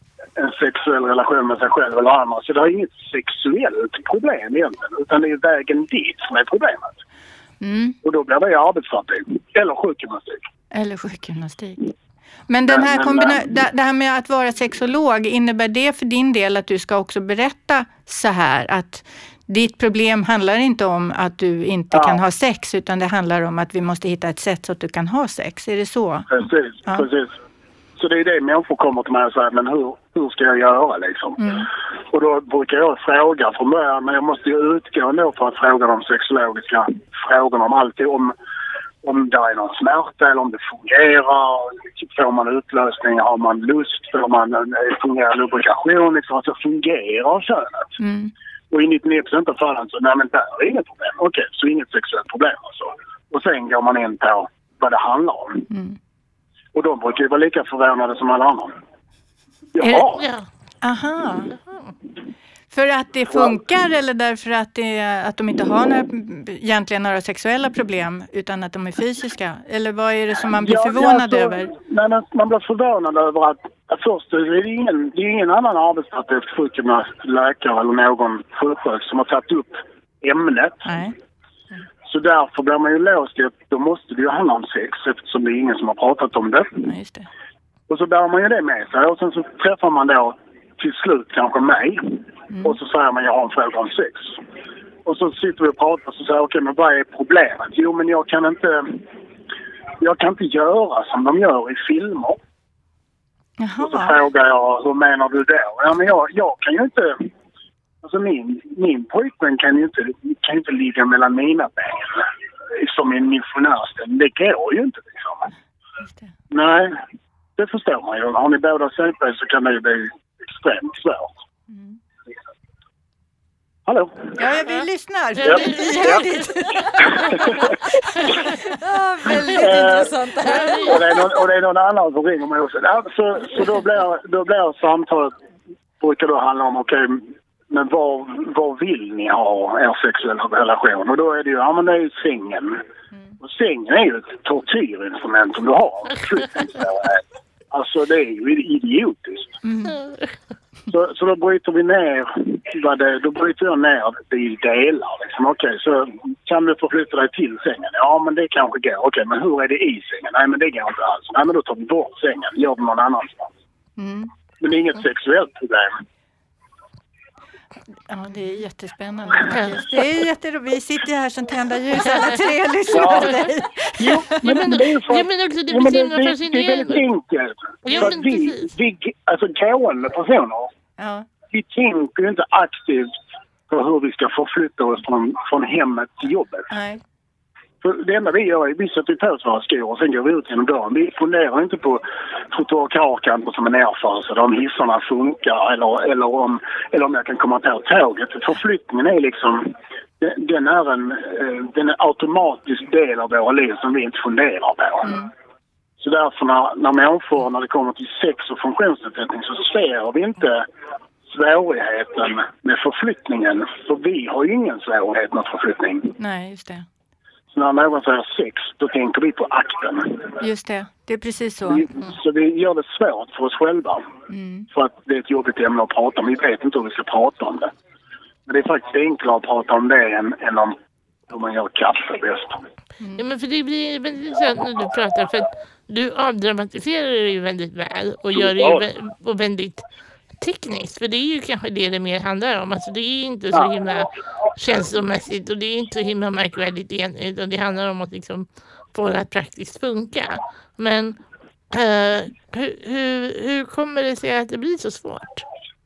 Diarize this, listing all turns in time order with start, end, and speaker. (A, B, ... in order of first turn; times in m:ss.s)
0:00.4-0:07.0 A
0:07.6-0:08.0 B
0:08.0-0:10.5 A
0:10.7-0:11.8 B
0:12.5-0:27.1 B
0:12.7-0:13.5 A
0:21.9-0:22.2 A
0:26.3-0:27.4 A
0:28.0-0:38.3 A
0:31.4-0:31.7 B
0:39.0-0:48.0 A
0:48.0-0:48.3 B
0:48.7-0:55.7 A
0:55.7-0:56.0 B
0:56.7-0:58.8 A
0:59.8-1:00.2 A
1:00.1-1:00.5 C
1:00.8-1:01.6 B
1:02.7-1:11.7 B
1:03.3-1:03.6 A
1:10.6-1:20.9 A
1:20.9-1:21.2 B
1:22.1-1:26.8 A
1:26.8-1:27.3 B
1:27.9-1:34.4 A
1:32.5-1:32.8 B
1:35.0-1:39.0 A
1:40.0-1:42.4 A
1:43.6-1:44.2 B
1:43.8-1:47.3 A
1:48.0-1:55.5 A
1:56.0-1:56.3 B
1:56.5-1:57.0 A
1:57.6-2:01.3 A
2:01.7-2:02.0 B
2:03.9-2:04.4 A
2:04.4-2:07.5 B
2:05.4-2:06.4 C
2:05.4-2:06.2 A
2:06.8-2:07.7 A
2:08.7-2:11.2 D
2:09.6-2:10.2 A
2:10.4-2:11.0 C
2:10.8-2:15.3 A
2:16.0-2:22.8 A
2:23.4-2:29.6 A
2:29.6-2:30.0 B
2:29.9-2:30.4 C
2:30.9-2:43.5 A
2:44.0-2:44.3 B
2:44.6-2:46.0 A
2:48.1-2:54.7 B
2:52.0-2:52.4 C
2:52.9-2:53.4 A
2:54.0-3:00.7 A
2:54.4-2:57.0 C
2:57.8-2:58.7 C
3:01.0-3:01.3 B
3:01.5-3:03.1 A
3:03.7-3:06.7 A
3:06.7-3:07.0 B
3:07.8-3:25.2 A
3:26.0-3:30.7 A
3:31.2-3:36.2 A
3:36.2-3:36.9 B
3:37.5-3:40.4 A
3:40.4-3:41.9 B
3:41.7-3:44.1 A
3:44.3-3:44.7 B
3:44.7-3:47.7 A
3:48.5-3:50.8 A
3:51.3-3:52.6 A
3:53.2-3:59.8 C
3:58.4-3:58.8 A
4:00.4-4:11.2 C
4:11.7-4:15.4 C